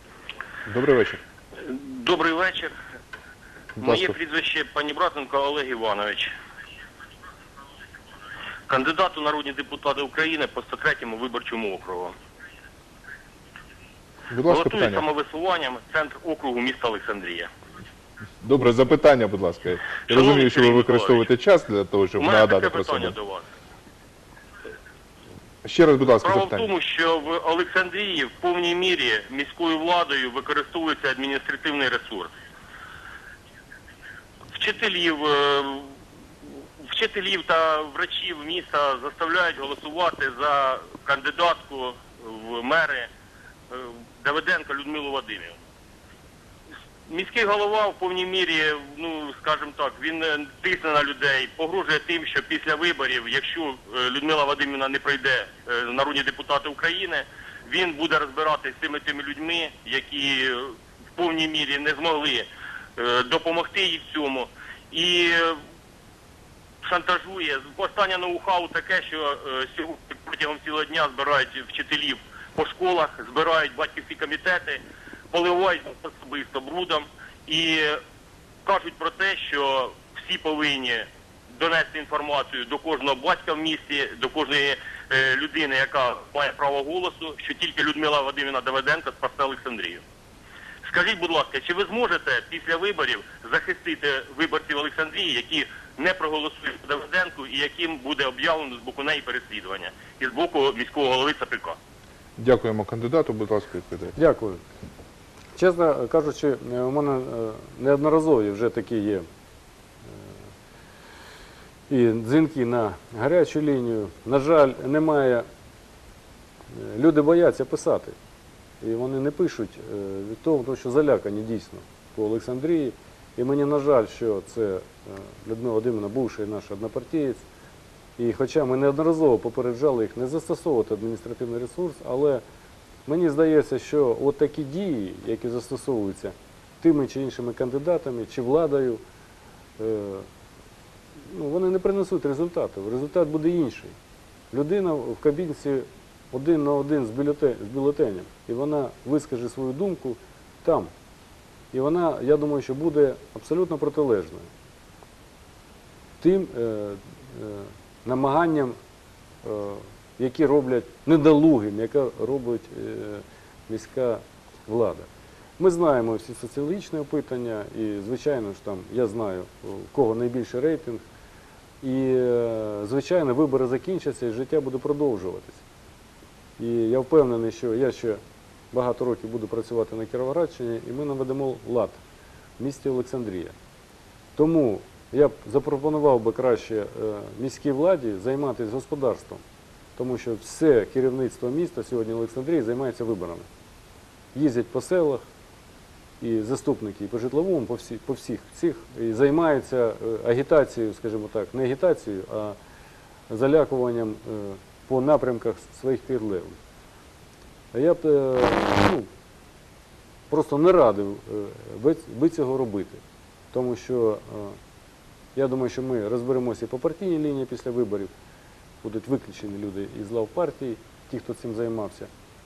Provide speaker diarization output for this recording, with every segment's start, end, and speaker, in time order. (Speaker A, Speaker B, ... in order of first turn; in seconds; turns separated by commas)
Speaker A: 0.7-1.2, Speaker B: 1.6-2.8, Speaker A: 3.8-4.2, Speaker B: 3.8-6.3, Speaker B: 8.7-12.2, Speaker A: 14.3-15.1, Speaker B: 14.4-17.5, Speaker A: 18.4-23.2, Speaker B: 20.1-21.3, Speaker B: 22.2-23.5, Speaker A: 25.6-26.7, Speaker B: 26.2-32.3, Speaker B: 34.5-43.1, Speaker B: 43.7-45.6, Speaker B: 47.1-65.6, Speaker B: 66.8-78.0, Speaker B: 78.7-90.0, Speaker B: 90.8-101.8, Speaker A: 102.4-104.2, Speaker C: 104.2-104.6, Speaker C: 105.6-109.2, Speaker C: 111.9-115.5, Speaker C: 116.7-118.2, Speaker C: 118.8-127.4, Speaker C: 128.2-132.4, Speaker C: 133.1-139.0, Speaker C: 139.8-140.3, Speaker C: 141.3-143.9, Speaker C: 144.5-150.9, Speaker C: 151.7-154.5, Speaker C: 156.2-158.8, Speaker C: 159.4-165.1, Speaker C: 165.6-171.0, Speaker C: 171.8-175.6, Speaker C: 176.6-178.2, Speaker C: 178.7-182.0, Speaker C: 182.6-183.5, Speaker C: 184.4-189.4, Speaker C: 190.0-193.5, Speaker C: 194.3-195.2, Speaker C: 196.2-202.6, Speaker C: 203.3-206.6, Speaker C: 207.7-209.1, Speaker C: 210.3-213.0, Speaker C: 213.5-214.6, Speaker C: 215.3-218.1, Speaker C: 218.8-222.1